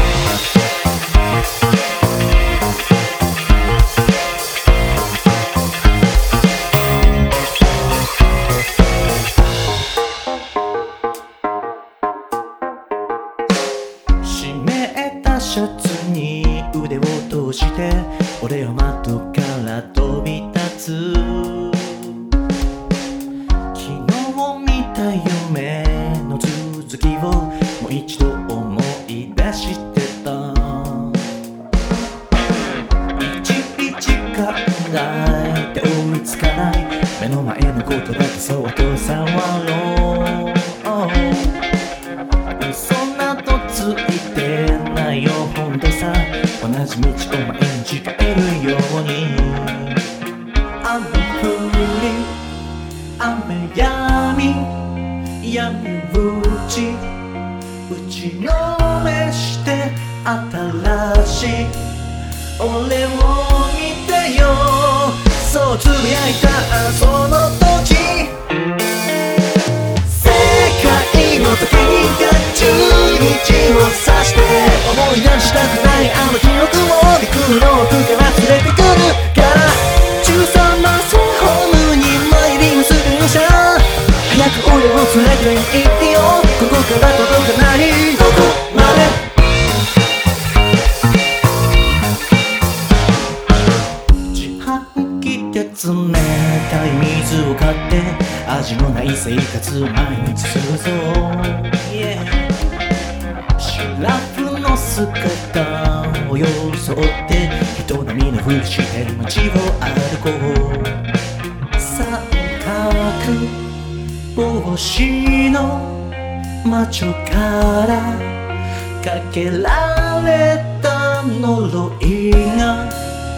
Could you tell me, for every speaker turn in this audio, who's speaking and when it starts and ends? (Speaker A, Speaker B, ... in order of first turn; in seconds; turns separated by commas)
Speaker A: 14.2-22.3, Speaker A: 23.7-31.3, Speaker A: 33.2-41.6, Speaker A: 42.6-50.0, Speaker A: 50.8-52.4, Speaker A: 53.2-57.1, Speaker A: 57.9-62.0, Speaker A: 62.6-68.4, Speaker A: 70.0-89.2, Speaker A: 94.3-102.5, Speaker A: 103.6-111.0, Speaker A: 111.8-113.6, Speaker A: 114.3-118.4, Speaker A: 119.0-123.0